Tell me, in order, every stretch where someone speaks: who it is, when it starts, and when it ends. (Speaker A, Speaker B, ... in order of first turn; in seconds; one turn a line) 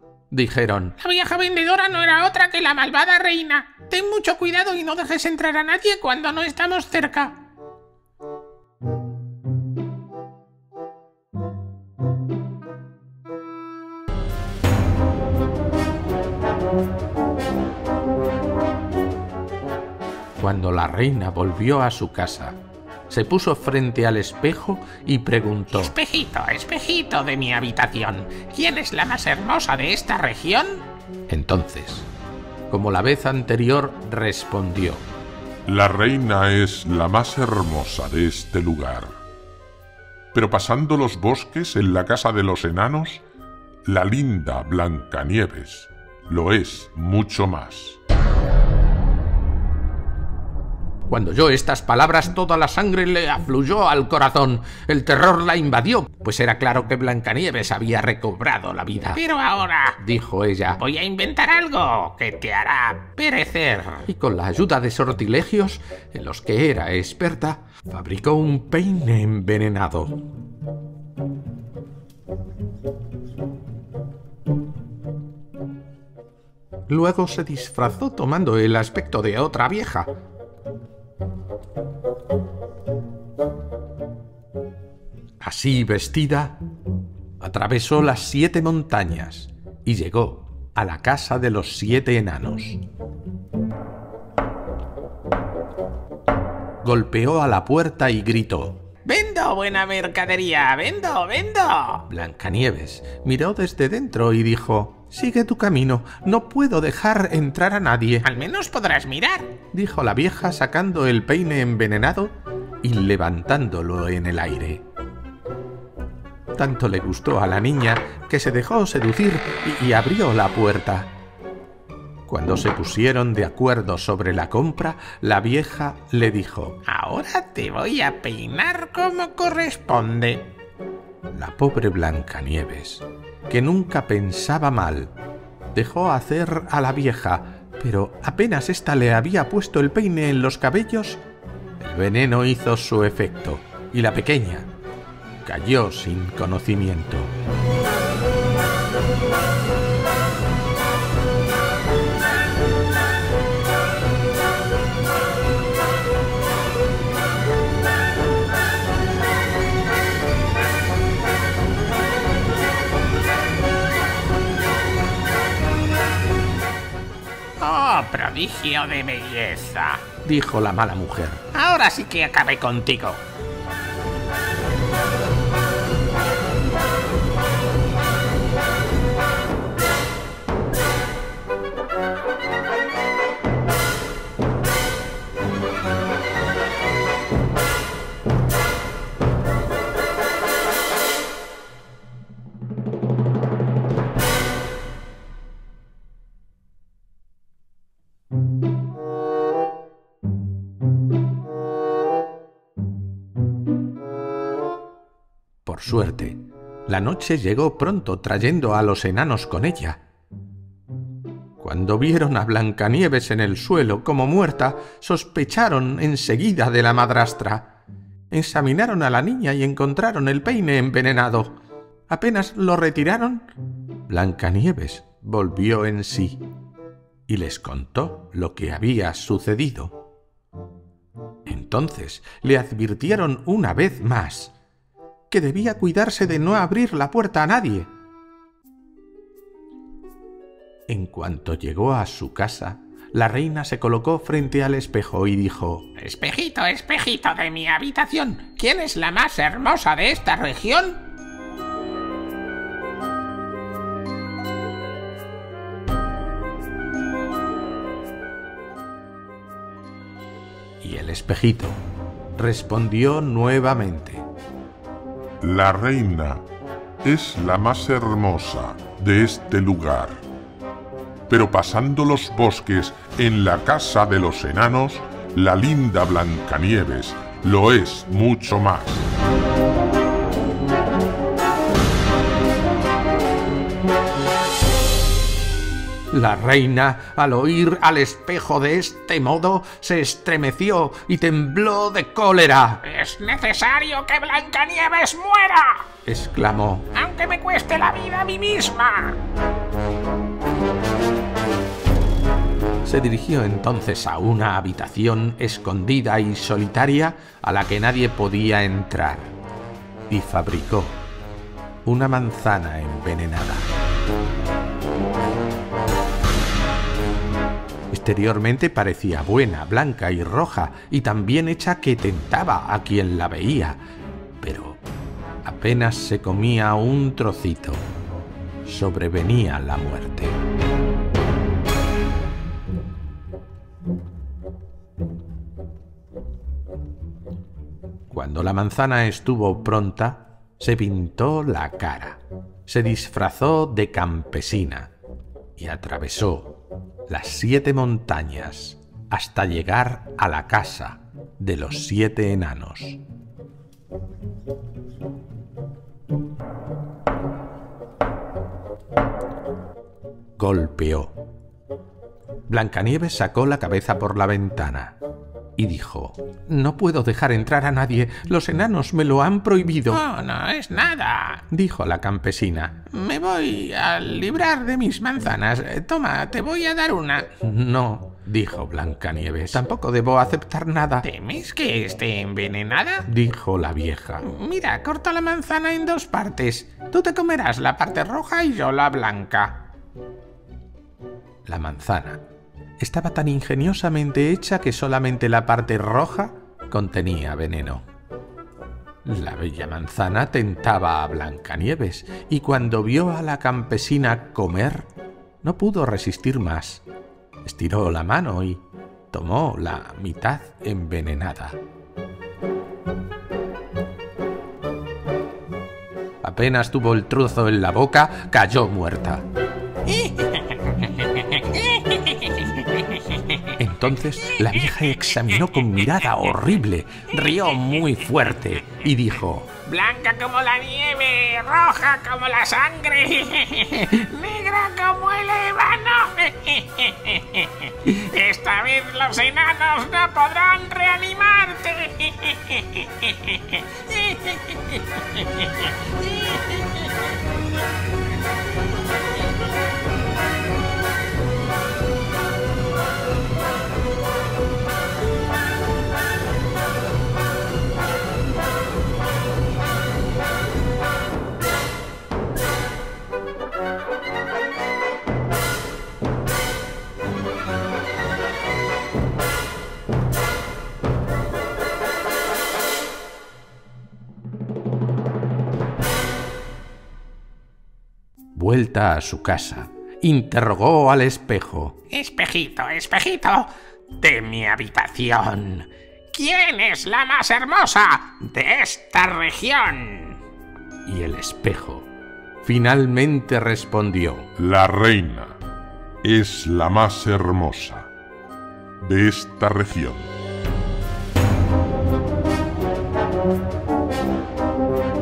Speaker A: 0.3-1.0
Speaker B: 1.0-7.4
Speaker A: 20.4-22.6
Speaker A: 23.1-25.9
Speaker B: 25.8-30.9
Speaker A: 31.3-32.1
Speaker A: 32.7-35.1
Speaker C: 35.7-39.2
Speaker C: 40.3-43.2
Speaker C: 43.9-48.0
Speaker A: 51.1-59.2
Speaker B: 59.1-60.0
Speaker A: 60.0-60.8
Speaker B: 60.8-64.1
Speaker A: 64.0-70.2
Speaker A: 76.9-80.1
Speaker A: 85.4-86.6
Speaker A: 87.4-92.8
Speaker A: 96.8-98.8
Speaker B: 99.0-102.1
Speaker A: 102.1-108.3
Speaker B: 108.2-109.5
Speaker A: 109.7-114.8
Speaker A: 116.6-121.2
Speaker A: 122.3-126.8
Speaker B: 126.9-130.5
Speaker A: 131.3-135.1
Speaker A: 135.7-141.2
Speaker A: 141.8-144.7
Speaker A: 145.4-147.3
Speaker B: 167.6-170.1
Speaker A: 170.2-171.5
Speaker B: 171.5-173.2
Speaker A: 205.6-210.0
Speaker A: 211.6-217.8
Speaker A: 218.3-221.6
Speaker A: 222.1-223.5
Speaker A: 224.1-226.4
Speaker A: 227.3-230.0
Speaker A: 231.5-234.6
Speaker A: 235.3-237.9
Speaker A: 240.9-245.9
Speaker B: 246.0-251.0
Speaker A: 260.8-261.8
Speaker A: 262.4-264.3
Speaker C: 265.4-266.4
Speaker C: 267.0-270.2
Speaker C: 271.3-279.1
Speaker A: 286.1-292.8
Speaker B: 292.8-295.9
Speaker A: 296.1-296.9
Speaker B: 296.9-299.2
Speaker A: 302.8-309.3
Speaker A: 310.1-311.0
Speaker A: 311.9-313.7
Speaker A: 317.9-323.8
Speaker A: 324.4-324.8
Speaker A: 325.4-327.9
Speaker A: 328.6-330.4
Speaker A: 338.1-344.9
Speaker A: 345.6-353.0
Speaker A: 360.4-361.1
Speaker A: 362.5-365.0
Speaker A: 365.6-370.0
Speaker B: 369.9-371.5
Speaker A: 371.5-372.9
Speaker B: 372.9-377.3
Speaker A: 377.4-381.1
Speaker B: 381.0-383.1
Speaker A: 383.1-384.3
Speaker B: 384.2-389.7
Speaker A: 391.4-392.2
Speaker A: 392.8-397.9
Speaker A: 399.1-404.9
Speaker A: 405.4-406.8
Speaker A: 407.4-411.6
Speaker A: 416.2-419.2
Speaker B: 419.9-423.5
Speaker A: 423.6-429.5
Speaker B: 429.7-447.1
Speaker A: 478.4-481.8
Speaker B: 481.9-490.2
Speaker A: 490.9-491.9
Speaker A: 492.4-494.3
Speaker C: 494.4-495.4
Speaker C: 496.0-497.9
Speaker C: 498.8-500.1